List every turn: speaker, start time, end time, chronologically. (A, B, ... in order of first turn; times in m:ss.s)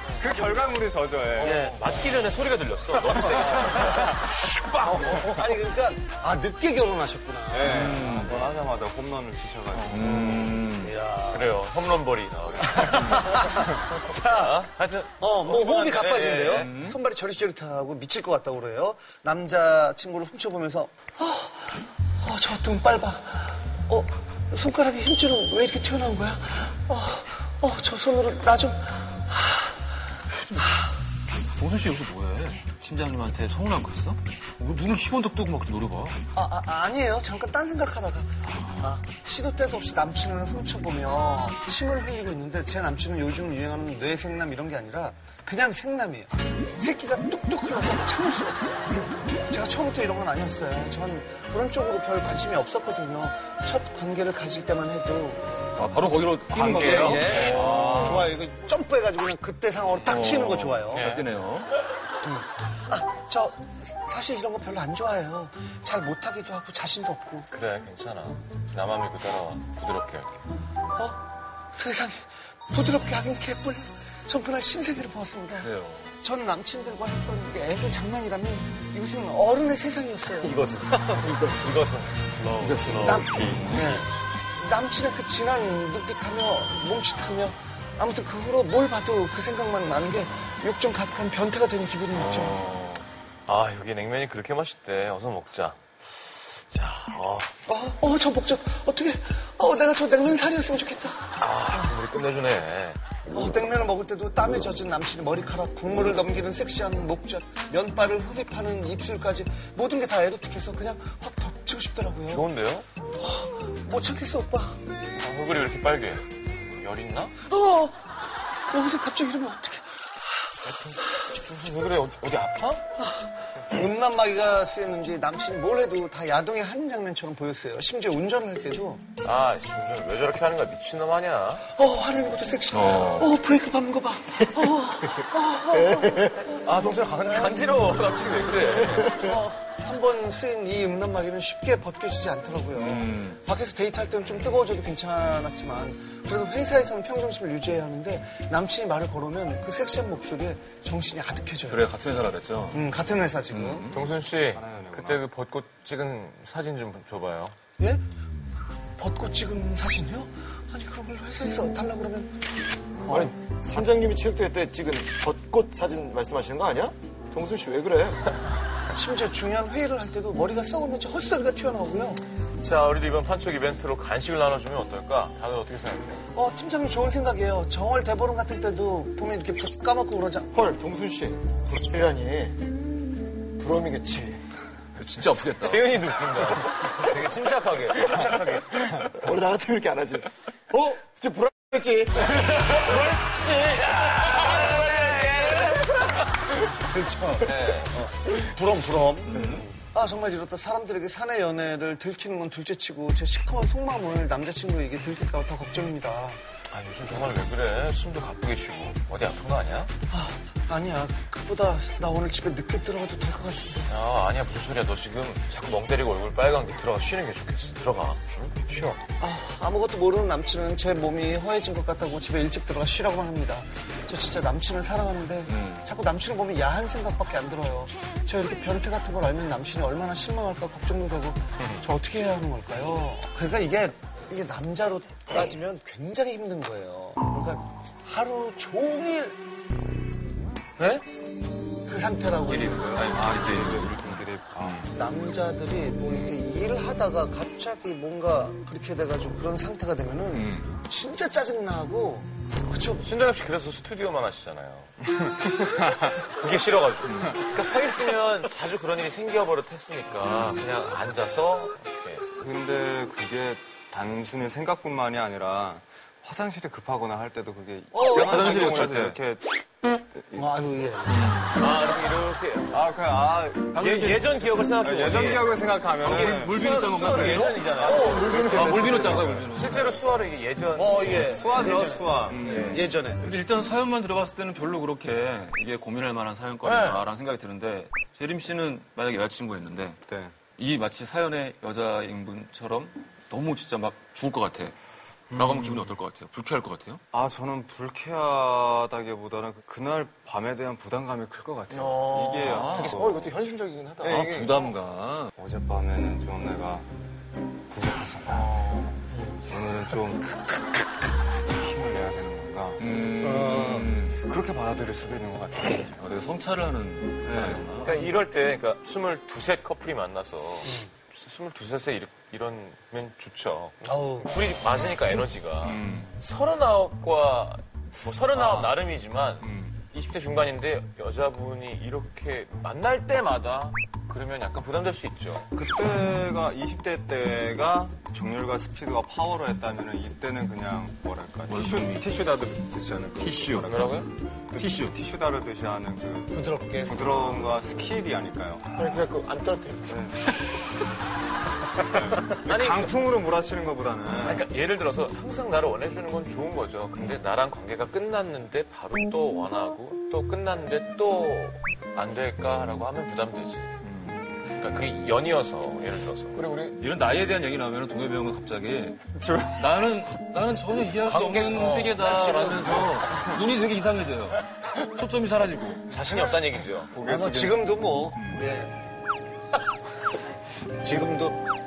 0:00.2-0:01.7 A
0:01.4-0:05.3 B
0:01.4-0:02.0 C
0:03.0-0:04.0 C
0:04.9-0:08.1 C
0:07.5-0:10.6 A
0:07.6-0:08.3 D
0:09.8-0:10.9 D
0:10.8-0:11.6 C
0:11.3-0:16.7 B
0:12.7-0:14.7 C
0:15.2-0:29.8 C
0:16.5-0:17.0 D
0:31.6-0:36.2 D
0:36.3-0:55.6 C
0:38.5-0:38.9 D
0:55.8-0:58.3 D
0:56.5-0:58.4 A
0:56.8-1:01.1 C
1:00.1-1:01.7 D
1:00.9-1:01.3 B
1:02.2-1:07.5 C
1:07.5-1:10.3 B
1:10.9-1:21.2 C
1:15.6-1:16.1 D
1:20.4-1:23.5 B
1:21.1-1:21.9 E
1:22.6-1:23.3 E
1:23.0-1:32.6 C
1:23.4-1:24.0 D
1:32.3-1:33.0 D
1:33.5-1:37.5 B
1:37.7-1:42.0 C
1:41.4-1:43.0 B
1:43.3-1:52.4 C
1:52.3-1:52.9 B
1:53.2-1:54.8 C
1:55.2-1:57.3 B
1:57.4-2:00.6 C
2:00.6-2:02.8 B
2:03.0-2:09.1 C
2:09.2-2:11.7 B
2:11.7-2:17.6 C
2:12.7-2:13.3 D
2:15.8-2:16.5 E
2:16.6-2:19.3 B
2:19.1-2:31.9 C
2:22.8-2:23.4 D
2:31.7-2:32.8 D
2:32.7-2:33.9 C
2:33.5-2:34.1 D
2:33.9-2:37.6 B
2:34.3-2:35.2 A
2:39.0-2:42.4 C
2:43.0-2:43.3 C
2:43.0-2:48.4 E
2:48.9-2:52.2 C
2:52.6-2:56.2 B
2:56.3-3:00.5 C
3:00.5-3:02.7 E
3:03.6-3:04.4 E
3:05.0-3:06.1 D
3:05.4-3:08.3 B
3:07.9-3:08.8 C
3:08.9-3:13.0 E
3:12.3-3:16.0 B
3:16.7-3:26.4 C
3:17.4-3:18.0 B
3:26.7-3:29.9 B
3:30.1-3:33.9 C
3:33.9-3:38.7 B
3:38.7-3:59.4 C
3:45.5-3:45.8 D
3:51.6-3:51.8 B
4:00.8-4:01.1 C
4:01.8-4:02.8 C
4:02.5-4:04.8 D
4:03.1-4:04.9 A
4:04.9-4:13.1 C
4:10.3-4:10.7 D
4:13.0-4:22.2 B
4:17.1-4:17.4 D
4:22.4-4:29.5 A
4:27.9-4:28.8 C
4:28.2-4:29.2 D
4:30.2-4:30.5 A
4:30.3-4:31.4 C
4:31.1-4:31.5 D
4:31.6-4:32.8 B
4:32.7-4:33.8 A
4:33.8-4:34.3 D
4:33.8-4:41.4 B
4:34.8-4:36.6 A
4:36.0-4:39.9 D
4:37.7-4:38.9 C
4:37.9-4:39.2 E
4:38.3-4:39.8 A
4:40.8-4:43.2 C
4:41.1-4:42.5 A
4:42.3-4:54.8 D
4:42.4-4:42.8 B
4:46.6-4:47.1 B
4:50.1-4:50.4 A
4:55.3-4:56.0 A
4:55.3-4:57.0 D
4:57.1-5:03.4 A
5:01.7-5:04.3 E
5:02.4-5:03.0 D
5:02.7-5:03.1 B
5:04.0-5:04.7 A
5:04.0-5:05.3 D
5:05.4-5:06.9 A
5:07.7-5:08.5 A
5:08.3-5:09.0 E
5:09.5-5:10.3 A
5:11.5-5:15.9 A
5:12.8-5:14.2 D
5:13.2-5:13.6 C
5:16.0-5:17.9 D
5:17.3-5:17.6 A
5:17.8-5:35.5 B
5:23.8-5:24.4 C
5:25.6-5:26.1 D
5:35.5-5:44.0 A
5:41.5-5:42.0 D
5:43.2-5:43.7 D
5:43.6-5:44.1 B
5:44.5-5:48.7 A
5:44.6-5:44.9 D
5:46.3-5:47.4 C
5:48.8-5:50.3 E
5:49.9-5:50.2 A
5:51.8-5:54.5 A
5:52.4-5:52.9 B
5:54.2-6:03.8 B
6:03.9-6:04.2 D
6:04.4-6:06.4 B
6:06.3-6:06.8 E
6:06.8-6:15.8 D
6:09.2-6:09.9 A
6:11.0-6:12.2 B
6:12.0-6:13.0 C
6:15.9-6:16.9 B
6:16.9-6:17.6 A
6:17.0-6:18.8 C
6:20.8-6:21.5 C